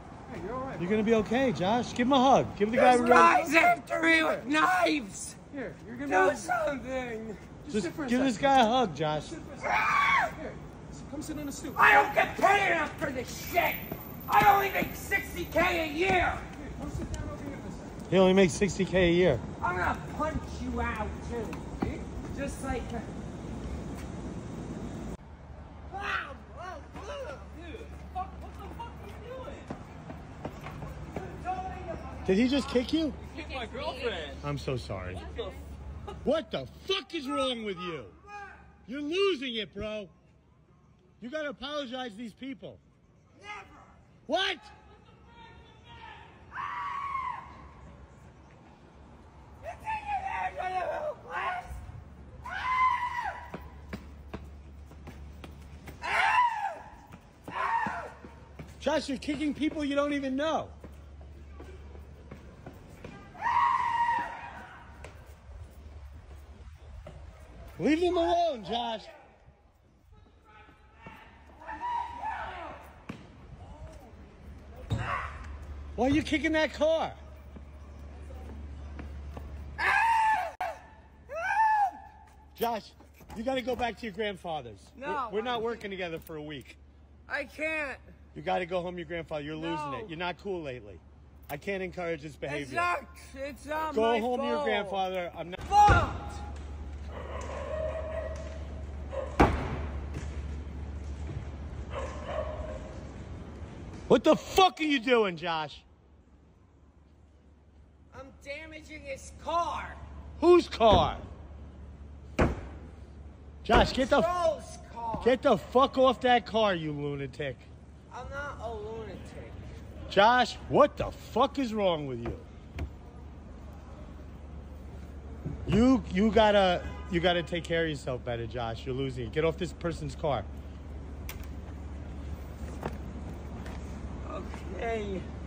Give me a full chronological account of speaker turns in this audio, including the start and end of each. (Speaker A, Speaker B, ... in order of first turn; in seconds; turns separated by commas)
Speaker A: 0.3-0.9, Speaker B: 0.8-3.4, Speaker C: 2.7-5.4, Speaker A: 2.8-4.5, Speaker A: 5.5-6.5, Speaker C: 6.1-7.4, Speaker A: 7.6-11.9, Speaker B: 7.7-9.3, Speaker C: 9.6-10.3, Speaker C: 11.8-16.5, Speaker A: 16.6-18.0, Speaker B: 18.1-19.4, Speaker C: 19.6-23.1, Speaker C: 25.9-27.4, Speaker C: 31.5-32.1, Speaker B: 32.2-33.2, Speaker C: 33.5-34.2, Speaker B: 34.4-35.2, Speaker B: 36.2-38.2, Speaker B: 38.9-40.1, Speaker B: 41.2-42.8, Speaker B: 44.3-44.7, Speaker C: 49.6-51.8, Speaker C: 56.0-56.8, Speaker B: 58.8-60.7, Speaker B: 67.8-69.1, Speaker B: 76.0-77.2, Speaker C: 79.8-80.7, Speaker C: 81.3-82.0, Speaker B: 82.5-86.8, Speaker C: 85.0-85.8, Speaker C: 87.3-88.0, Speaker B: 88.3-92.9, Speaker C: 89.5-90.1, Speaker C: 92.5-95.0, Speaker B: 93.9-95.6, Speaker C: 95.7-96.4, Speaker B: 104.1-105.8, Speaker C: 108.1-110.0, Speaker B: 110.4-111.2, Speaker B: 113.6-114.3, Speaker C: 113.7-115.4, Speaker B: 115.2-117.7, Speaker C: 118.1-119.6, Speaker B: 120.1-122.4, Speaker B: 125.7-130.5, Speaker C: 134.2-135.3